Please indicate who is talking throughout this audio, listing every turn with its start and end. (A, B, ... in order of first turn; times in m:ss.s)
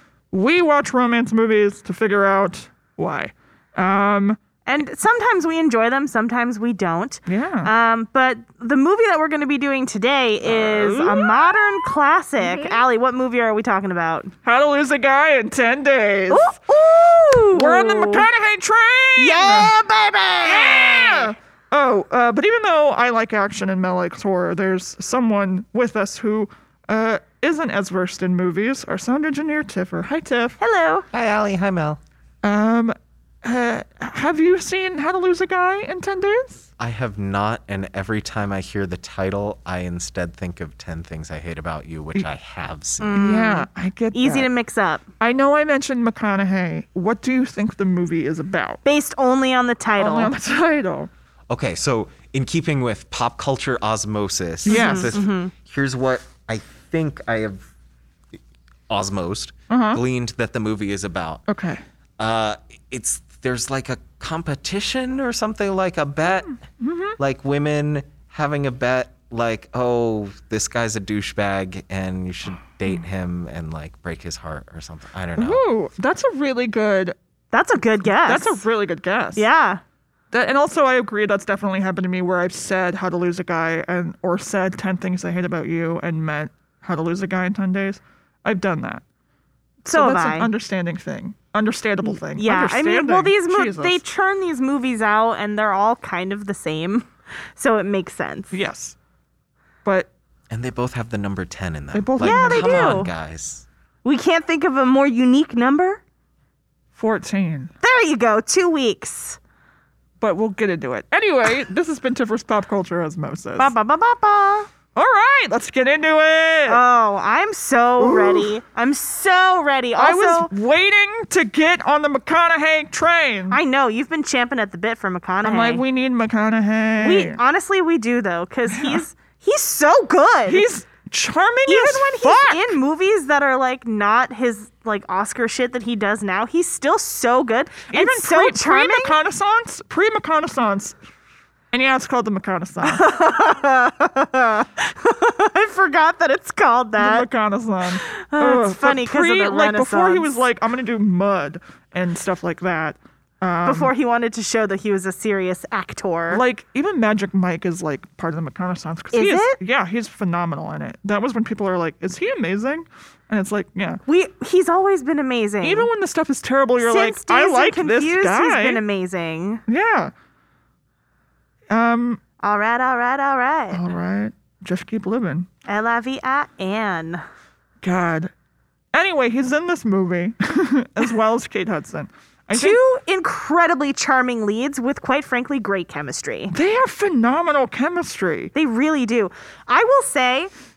0:00.3-0:04.4 A
0:04.6-0:14.3 B
0:07.3-0:07.7 A
0:10.4-0:12.8 A
0:14.4-0:16.6 A
0:16.3-0:18.3 B
0:17.5-0:19.7 A
0:19.2-0:21.4 B
0:20.4-0:30.6 A
0:30.6-0:31.0 B
0:31.1-0:32.0 C
0:32.4-0:36.7 A
0:36.8-0:43.2 C
0:43.0-0:45.0 B
0:43.2-0:44.5 A
0:45.2-0:48.8 A
0:48.8-0:50.3 B
0:50.0-0:51.1 A
0:51.5-0:57.7 C
0:54.6-0:55.2 A
0:54.7-0:55.5 B
0:58.9-1:01.4 C
0:59.7-1:00.0 A
1:01.5-1:01.8 A
1:02.2-1:06.6 C
1:06.7-1:07.2 A
1:07.2-1:15.6 C
1:15.4-1:17.2 A
1:17.5-1:18.6 B
1:18.3-1:19.4 A
1:19.4-1:19.8 B
1:20.3-1:29.0 A
1:29.8-1:30.5 B
1:29.9-1:34.0 A
1:32.0-1:38.6 B
1:38.5-1:39.0 A
1:39.8-1:40.1 A
1:40.5-1:43.6 C
1:41.9-1:43.1 A
1:42.2-1:43.1 B
1:44.0-1:46.0 B
1:47.0-1:47.7 A
1:47.8-1:49.4 B
1:50.2-1:53.7 A
1:53.6-1:54.7 B
1:55.0-1:56.8 A
1:56.7-2:00.5 B
1:58.0-1:58.5 A
2:00.0-2:03.6 A
2:03.5-2:05.8 B
2:05.4-2:07.4 A
2:07.0-2:10.7 B
2:08.7-2:09.0 A
2:10.5-2:12.7 A
2:11.7-2:19.2 B
2:17.9-2:21.0 A
2:21.7-2:23.0 A
2:22.8-2:27.3 B
2:27.0-2:33.9 A
2:28.0-2:30.4 B
2:33.6-2:36.4 B
2:36.3-2:44.0 A
2:39.1-2:39.6 B
2:44.1-2:45.9 B
2:45.6-2:48.8 A
2:46.8-2:49.6 B
2:49.7-2:50.1 A
2:51.7-2:52.2 A
2:52.4-2:53.8 B
2:53.7-2:55.5 A
2:55.7-2:57.2 B
2:57.8-2:58.3 A
2:58.9-3:02.8 A
3:02.5-3:06.5 B
3:06.5-3:08.5 A
3:08.5-3:10.5 B